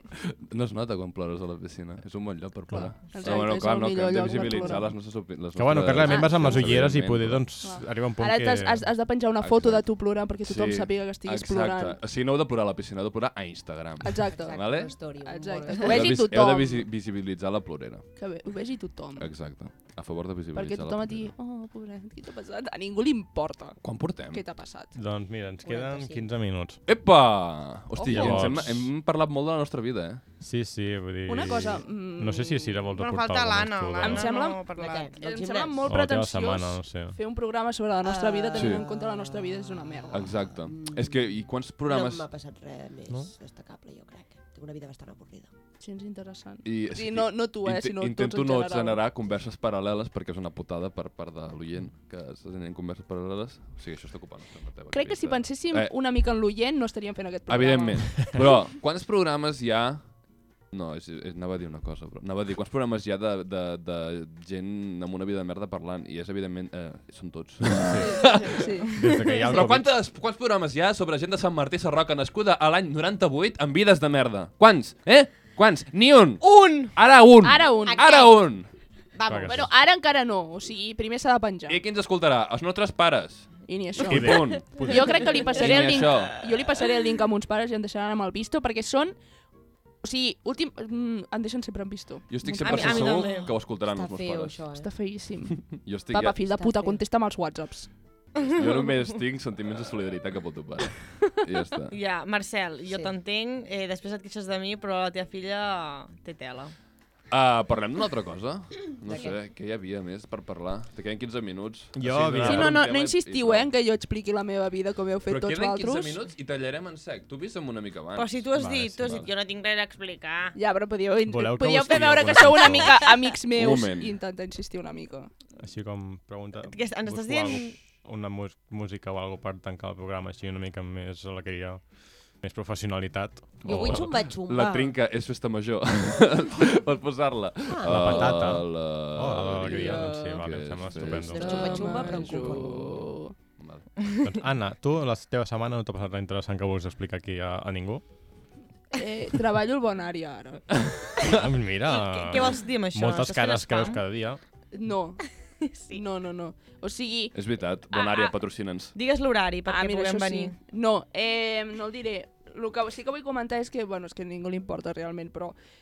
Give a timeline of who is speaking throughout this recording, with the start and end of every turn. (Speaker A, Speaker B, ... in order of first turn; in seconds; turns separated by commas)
Speaker A: 0.1-7.5, Speaker B: 3.1-5.0, Speaker C: 5.5-8.8, Speaker B: 6.0-6.7, Speaker B: 7.6-12.0, Speaker A: 9.4-9.9, Speaker A: 10.4-14.9, Speaker B: 14.0-16.9, Speaker D: 14.3-16.2, Speaker A: 15.8-18.1, Speaker B: 18.1-19.3, Speaker A: 19.2-21.3, Speaker B: 20.5-24.9, Speaker A: 23.8-24.4, Speaker C: 24.9-26.8, Speaker D: 25.6-26.3, Speaker A: 26.9-30.2, Speaker B: 28.0-28.7, Speaker C: 28.1-28.9, Speaker C: 30.4-34.3, Speaker B: 31.3-32.8, Speaker E: 33.0-35.1, Speaker B: 34.0-40.3, Speaker D: 34.8-35.9, Speaker C: 35.9-37.1, Speaker D: 38.0-45.5, Speaker A: 38.5-38.8, Speaker A: 40.1-42.2, Speaker B: 45.8-49.0, Speaker A: 46.6-55.9, Speaker B: 54.9-58.5, Speaker A: 57.5-60.1, Speaker A: 60.7-78.7, Speaker C: 67.9-69.9, Speaker B: 67.9-69.7, Speaker E: 76.4-76.9, Speaker B: 77.4-78.2, Speaker D: 77.8-78.4, Speaker D: 79.2-79.5, Speaker C: 79.3-79.7, Speaker B: 79.4-81.8, Speaker A: 81.7-86.4, Speaker B: 83.7-89.2, Speaker C: 84.0-85.4, Speaker B: 90.0-93.2, Speaker A: 92.3-94.6, Speaker E: 92.6-93.5, Speaker D: 93.8-94.9, Speaker B: 94.8-97.9, Speaker A: 95.7-96.4, Speaker D: 96.5-97.0, Speaker E: 98.4-99.0, Speaker A: 98.5-101.9, Speaker E: 101.9-106.7, Speaker D: 102.9-103.1, Speaker A: 107.3-113.7, Speaker D: 109.1-109.4, Speaker C: 111.9-112.8, Speaker B: 112.4-116.2, Speaker A: 115.2-118.5, Speaker E: 118.1-120.6, Speaker C: 118.5-119.2, Speaker A: 119.0-119.3, Speaker B: 120.5-125.3, Speaker C: 121.3-123.0, Speaker E: 122.6-123.1, Speaker A: 123.5-124.1, Speaker C: 125.6-131.8, Speaker E: 126.6-127.7, Speaker C: 132.4-134.2, Speaker D: 133.6-134.9, Speaker A: 133.7-143.1, Speaker D: 137.7-138.3, Speaker C: 137.8-141.8, Speaker D: 139.7-140.4, Speaker D: 140.9-143.0, Speaker B: 141.3-143.3, Speaker A: 143.6-143.9, Speaker C: 144.2-148.0, Speaker B: 148.9-150.6, Speaker C: 151.2-154.4, Speaker E: 151.8-154.0, Speaker B: 154.7-155.2, Speaker E: 155.7-156.0, Speaker B: 155.9-157.3, Speaker A: 157.3-158.9, Speaker E: 158.9-160.6, Speaker B: 159.7-165.6